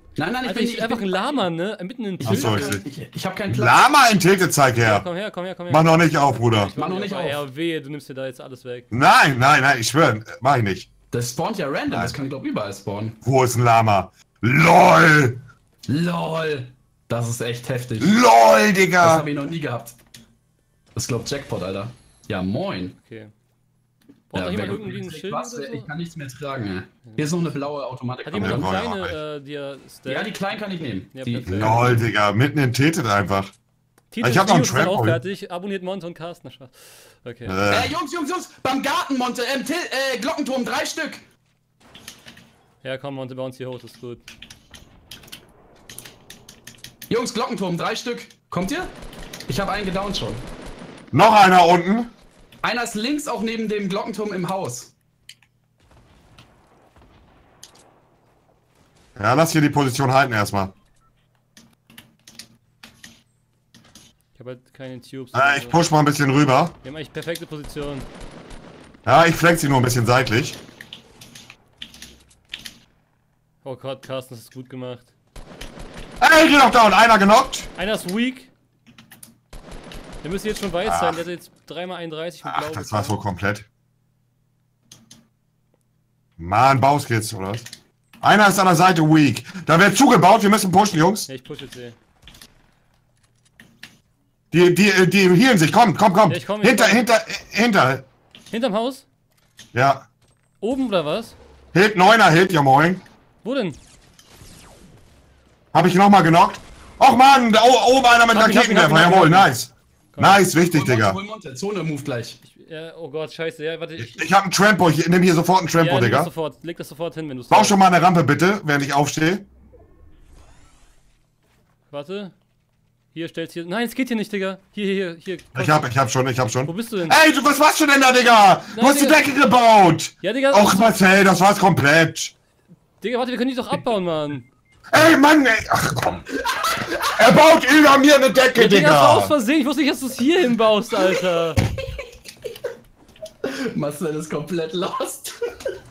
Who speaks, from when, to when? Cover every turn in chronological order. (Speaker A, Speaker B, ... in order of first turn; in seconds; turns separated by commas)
Speaker A: 0.2-1.5, Speaker B: 0.4-2.8, Speaker A: 2.2-3.9, Speaker C: 2.2-2.8, Speaker C: 3.5-5.1, Speaker B: 4.8-8.9, Speaker C: 5.7-6.7, Speaker A: 6.8-7.4, Speaker C: 8.9-10.9, Speaker A: 11.1-13.2, Speaker C: 13.2-15.4, Speaker A: 15.9-18.2, Speaker C: 18.0-19.3, Speaker A: 19.0-19.9, Speaker A: 20.9-22.9, Speaker B: 23.0-23.3, Speaker B: 24.3-25.9, Speaker A: 24.3-28.7, Speaker B: 27.1-27.4, Speaker B: 28.2-30.4, Speaker C: 28.3-29.1, Speaker A: 30.1-32.0, Speaker B: 31.1-31.9, Speaker C: 31.5-33.5, Speaker B: 34.1-37.6, Speaker C: 34.2-35.2, Speaker C: 37.5-37.9, Speaker A: 37.7-41.2, Speaker B: 42.8-44.2, Speaker A: 47.1-48.9, Speaker A: 49.5-50.4, Speaker C: 51.1-52.1, Speaker A: 52.6-54.9, Speaker C: 59.1-60.7, Speaker B: 64.3-65.8, Speaker C: 65.3-66.7, Speaker B: 66.8-68.0, Speaker C: 69.0-70.6, Speaker B: 73.6-75.1, Speaker C: 76.2-77.7, Speaker B: 77.8-78.5, Speaker B: 80.2-83.2, Speaker C: 80.8-81.2, Speaker C: 82.4-83.7, Speaker C: 86.4-87.7, Speaker C: 88.2-91.3, Speaker B: 91.3-92.0, Speaker C: 94.5-98.0, Speaker B: 96.3-97.0, Speaker B: 98.5-99.0, Speaker C: 99.7-100.0, Speaker B: 100.6-101.3, Speaker C: 101.7-103.0, Speaker B: 103.4-103.8, Speaker C: 105.7-111.2, Speaker B: 108.3-109.6, Speaker B: 110.1-110.5, Speaker A: 110.7-112.4, Speaker B: 112.4-114.3, Speaker C: 114.0-116.3, Speaker B: 115.8-117.8, Speaker C: 117.5-119.5, Speaker B: 121.9-122.3, Speaker B: 123.1-125.9, Speaker C: 125.5-132.3, Speaker B: 126.6-127.2, Speaker B: 128.7-129.2, Speaker B: 130.2-130.9, Speaker B: 133.0-134.5, Speaker C: 134.9-136.3, Speaker A: 136.5-137.0, Speaker C: 137.2-139.3, Speaker B: 138.5-141.6, Speaker A: 143.4-145.3